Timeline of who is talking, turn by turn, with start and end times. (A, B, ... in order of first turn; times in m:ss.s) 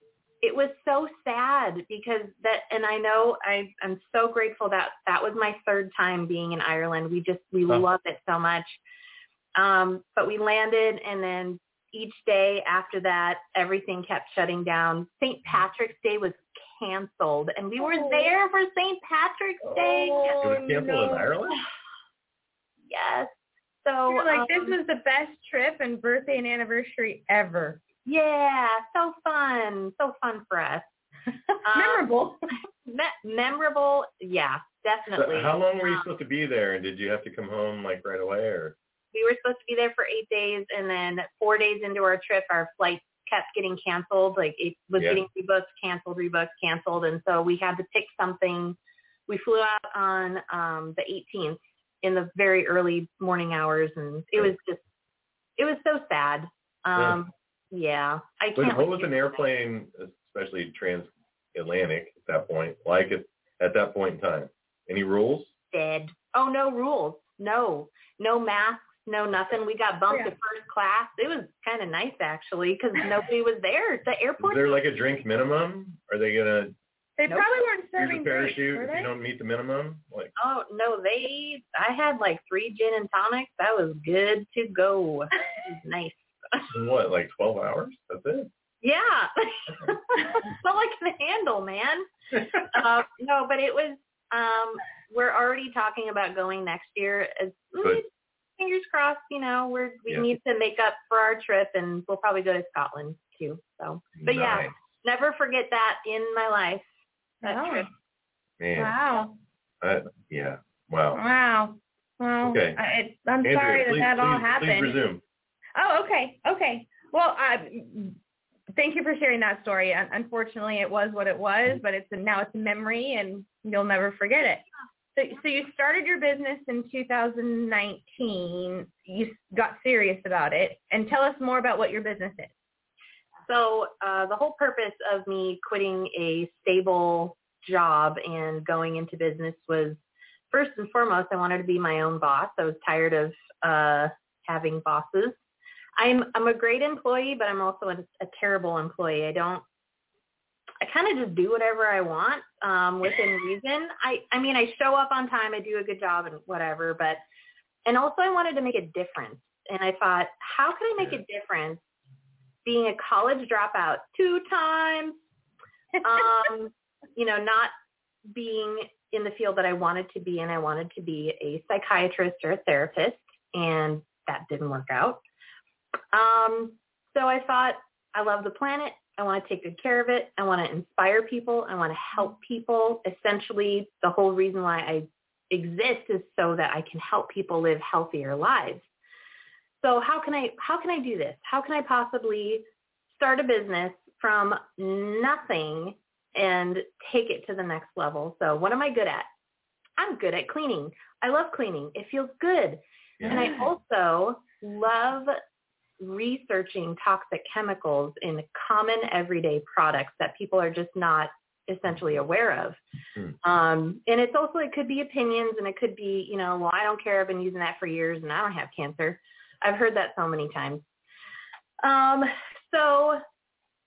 0:00.4-0:08.8 A
0:09.6-0:20.4 A
0:19.7-0:21.3 B
0:20.4-0:21.6 C
0:22.9-0:23.3 A
0:23.8-0:24.8 A
0:24.1-0:27.8 B
0:28.0-0:30.9 A
0:31.6-0:32.0 A
0:31.7-0:32.4 B
0:32.9-0:36.1 A
0:35.2-0:38.7 C
0:39.1-0:48.8 A
0:49.3-0:54.8 A
0:55.6-0:59.4 A
0:58.6-1:05.6 C
1:05.7-1:14.8 A
1:14.4-1:16.7 C
1:17.2-1:19.1 B
1:18.0-1:20.3 C
1:20.4-1:26.7 A
1:26.7-1:28.5 C
1:28.8-1:38.1 A
1:38.6-1:46.9 A
1:44.2-1:44.7 C
1:47.4-1:47.9 B
1:47.4-1:47.9 A
1:48.6-1:48.9 C
1:48.8-1:49.4 B
1:49.8-1:51.2 C
1:51.1-1:55.0 B
1:52.4-1:52.8 C
1:53.4-1:55.2 C
1:55.8-1:58.2 B
1:58.7-2:04.6 B
2:05.2-2:12.5 B
2:13.5-2:20.0 A
2:20.5-2:25.4 A
2:26.0-2:29.6 A
2:30.8-2:37.2 A
2:37.9-2:41.8 A
2:42.6-2:45.2 A
2:46.0-2:47.7 A
2:48.3-2:55.2 A
2:56.1-3:08.8 A
3:09.8-3:19.3 A
3:20.0-3:25.4 A
3:23.2-3:23.5 C
3:26.0-3:32.8 A
3:33.4-3:40.8 A
3:41.8-3:43.2 A